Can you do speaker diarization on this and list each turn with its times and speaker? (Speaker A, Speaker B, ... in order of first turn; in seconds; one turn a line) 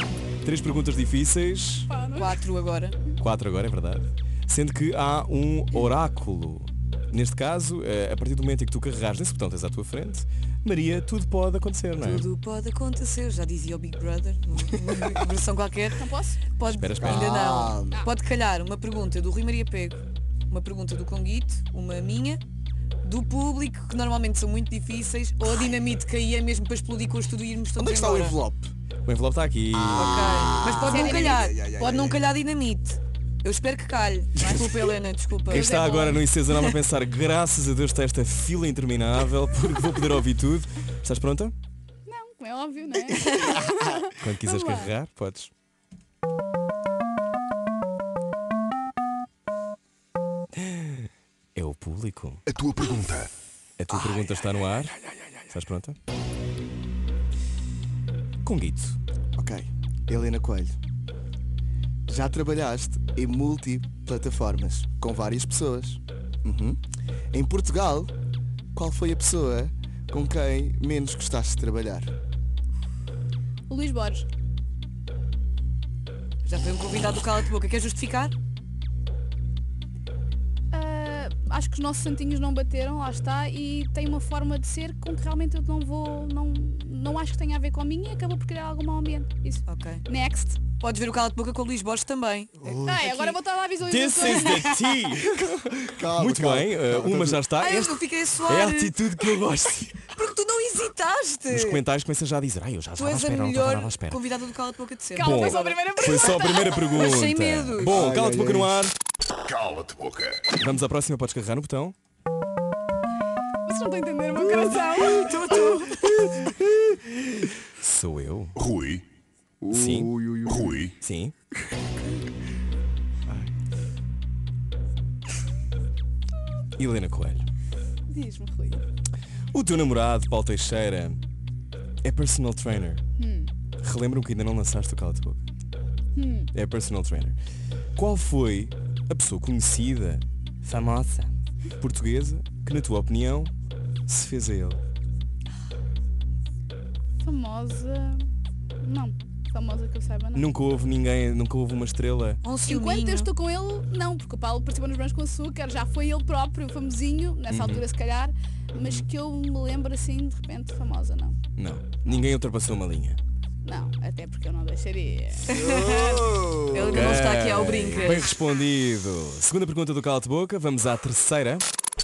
Speaker A: 0.4-1.9
Speaker B: 1.9-2.4
Speaker C: 2.1-3.0
Speaker A: 3.2-12.3
Speaker C: 12.0-16.0
Speaker B: 15.9-16.4
Speaker C: 16.6-22.4
Speaker A: 16.7-17.4
Speaker D: 17.0-18.0
Speaker C: 23.0-28.4
Speaker D: 27.8-28.7
Speaker A: 29.1-30.4
Speaker D: 29.7-32.3
Speaker C: 29.9-36.0
Speaker B: 30.7-31.5
Speaker B: 35.5-36.3
Speaker A: 35.5-41.5
Speaker C: 36.5-36.8
Speaker B: 42.1-44.9
Speaker C: 43.1-43.6
Speaker A: 44.2-45.5
Speaker A: 50.6-52.4
Speaker E: 52.5-53.3
Speaker A: 53.8-55.0
Speaker A: 55.5-56.0
Speaker A: 58.4-59.0
Speaker D: 59.4-60.8
Speaker D: 62.1-66.8
Speaker D: 67.3-68.1
Speaker D: 68.7-72.1
Speaker B: 73.7-74.3
Speaker C: 76.5-78.3
Speaker B: 80.7-90.6
Speaker C: 89.7-90.0
Speaker C: 90.8-93.4
Speaker D: 92.6-93.1
Speaker B: 92.8-94.7
Speaker A: 93.8-100.0
Speaker C: 94.2-94.8
Speaker D: 95.2-97.5
Speaker C: 97.6-99.3
Speaker C: 99.9-101.8
Speaker A: 101.5-104.2
Speaker C: 103.0-108.0
Speaker B: 105.2-107.0
Speaker A: 105.2-109.0
Speaker D: 107.8-108.8
Speaker E: 109.4-110.5
Speaker A: 110.5-112.0
Speaker B: 113.7-115.7
Speaker C: 115.1-116.2
Speaker D: 116.0-117.2
Speaker A: 117.8-118.6
Speaker E: 118.6-119.1
Speaker D: 119.6-120.9
Speaker A: 119.7-120.1
Speaker E: 120.5-120.9
Speaker A: 120.9-121.3
Speaker D: 123.3-123.5
Speaker A: 126.8-127.5
Speaker B: 128.1-128.8
Speaker A: 129.5-131.2
Speaker A: 132.0-133.0
Speaker B: 133.2-133.5
Speaker A: 133.8-135.4
Speaker B: 136.2-136.5
Speaker A: 136.5-137.4
Speaker A: 138.0-143.5
Speaker A: 144.1-144.8
Speaker B: 147.2-148.3
Speaker B: 148.8-150.5
Speaker A: 150.3-152.4
Speaker C: 152.4-153.3
Speaker B: 152.7-161.4
Speaker A: 157.5-157.9
Speaker A: 161.6-163.2
Speaker B: 163.6-165.6
Speaker C: 165.5-168.3
Speaker D: 165.5-167.3
Speaker A: 166.9-171.7